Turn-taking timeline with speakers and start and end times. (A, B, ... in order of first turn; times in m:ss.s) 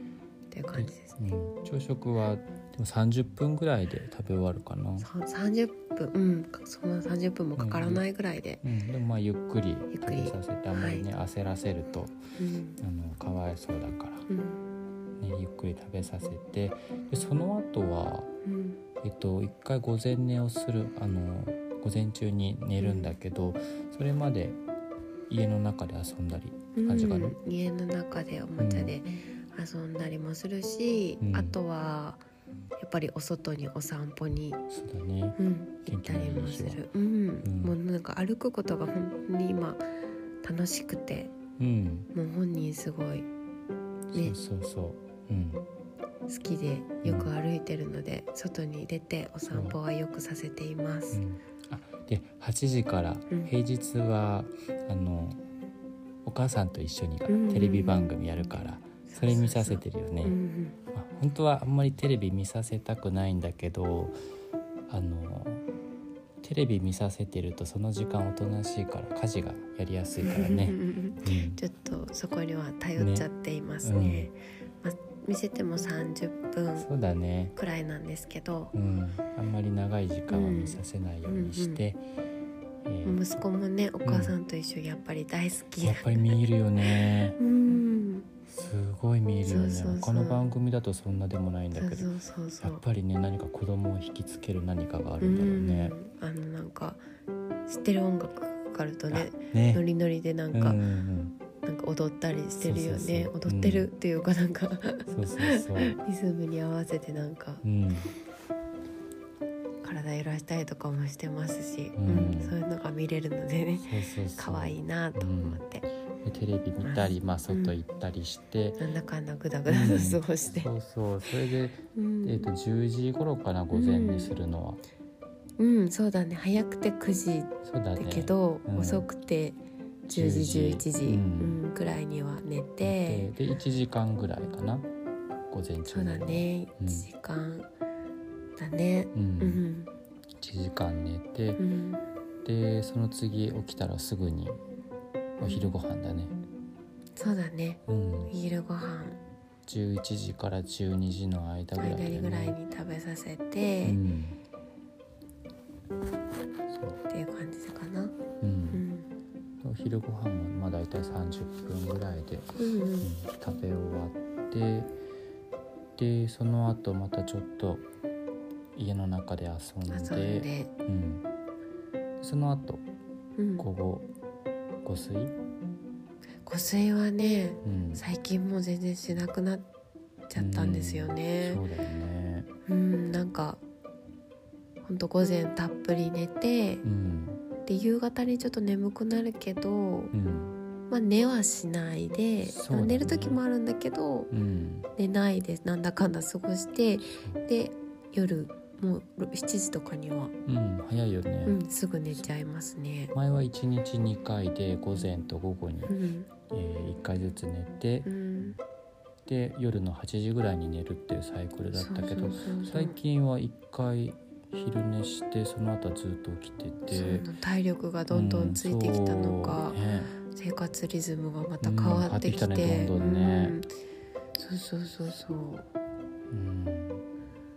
0:00.5-0:01.2 A
0:00.7-0:05.1 B
0:05.0-0:08.6 A
0:07.6-0:08.0 B
0:08.6-0:12.2 B
0:09.9-0:11.1 A
0:12.4-0:12.8 A
0:12.8-0:14.3 B
0:14.3-0:14.6 A
0:15.2-0:18.3 B
0:18.4-0:18.8 A
0:19.0-0:24.6 B
0:22.8-0:23.1 A
0:25.3-0:27.4 B
0:26.7-0:32.2 A
0:28.6-0:28.9 B
0:31.2-0:31.6 B
0:32.8-0:34.6 A
0:34.7-0:36.8 B
0:35.4-0:39.8 A
0:37.4-0:37.8 B
0:40.4-0:41.3 A
0:41.6-0:42.1 B
0:42.1-0:43.3 A
0:44.1-0:45.6 B
0:46.3-0:51.2 A
0:47.0-0:47.3 B
0:49.5-0:49.8 B
0:51.1-0:55.4 B
0:56.2-1:00.4 B
0:57.3-0:58.2 A
0:59.1-1:00.8 A
1:00.9-1:04.1 B
1:04.9-1:05.6 B
1:06.4-1:11.6 B
1:10.2-1:16.9 A
1:13.0-1:13.3 B
1:13.8-1:14.3 B
1:16.8-1:17.5 B
1:17.5-1:18.7 A
1:18.7-1:22.0 B
1:20.3-1:21.8 A
1:22.8-1:23.4 B
1:23.0-1:26.3 A
1:24.0-1:24.3 B
1:25.8-1:27.4 B
1:27.4-1:28.3 A
1:28.5-1:32.1 B
1:29.4-1:30.4 A
1:31.7-1:32.8 A
1:32.6-1:35.9 B
1:35.2-1:37.0 A
1:37.7-1:40.8 A
1:39.1-1:39.8 B
1:40.5-1:41.3 B
1:41.6-1:47.6 A
1:42.6-1:43.9 B
1:45.1-1:46.0 B
1:47.6-1:48.1 B
1:49.8-1:55.8 A
1:51.9-1:52.6 B
1:53.8-1:55.6 B
1:56.2-1:58.8 B
1:56.8-1:57.8 A
1:58.8-2:00.7 A
1:59.6-2:04.8 B
2:01.9-2:02.5 A
2:03.7-2:04.3 A
2:05.6-2:13.3 A
2:07.6-2:09.1 B
2:10.1-2:11.6 B
2:12.8-2:14.9 B
2:15.5-2:17.1 B
2:15.9-2:17.7 A
2:18.6-2:19.9 A
2:19.1-2:19.6 B
2:20.4-2:21.6 B
2:21.6-2:22.0 A
2:22.4-2:24.6 B
2:25.4-2:25.7 A
2:25.4-2:26.3 B
2:27.2-2:29.2 A
2:27.9-2:28.3 B
2:29.6-2:32.6 B
2:31.8-2:34.0 A
2:33.8-2:34.4 B
2:36.7-2:37.0 B
2:37.1-2:38.2 A
2:38.4-2:38.8 B
2:38.7-2:39.1 A
2:39.6-2:42.5 B
2:42.6-2:43.1 A
2:43.0-2:44.9 B
2:46.0-2:47.8 B
2:48.8-2:51.2 B
2:49.9-2:50.7 A
2:52.2-2:52.8 B
2:53.4-2:53.7 A
2:53.6-2:54.1 B
2:54.8-2:55.3 B
2:56.4-2:59.7 A
2:57.6-2:58.0 B
3:00.3-3:01.6 A
3:00.4-3:02.5 B
3:02.7-3:03.6 A
3:04.8-3:06.8 A
3:06.8-3:07.4 B
3:07.6-3:10.1 A
3:10.1-3:10.6 B
3:10.9-3:14.3 A
3:12.4-3:13.4 B
3:14.3-3:14.9 B
3:15.0-3:20.3 A
3:20.4-3:21.6 B
3:21.5-3:23.1 A
3:23.1-3:25.9 B
3:25.9-3:26.3 A
3:26.5-3:28.1 B
3:28.0-3:28.6 A
3:29.2-3:37.3 B
3:31.7-3:33.0 A
3:36.9-3:43.7 A
3:38.1-3:40.1 B
3:41.6-3:43.6 B
3:44.4-3:45.7 A
3:46.3-3:47.0 B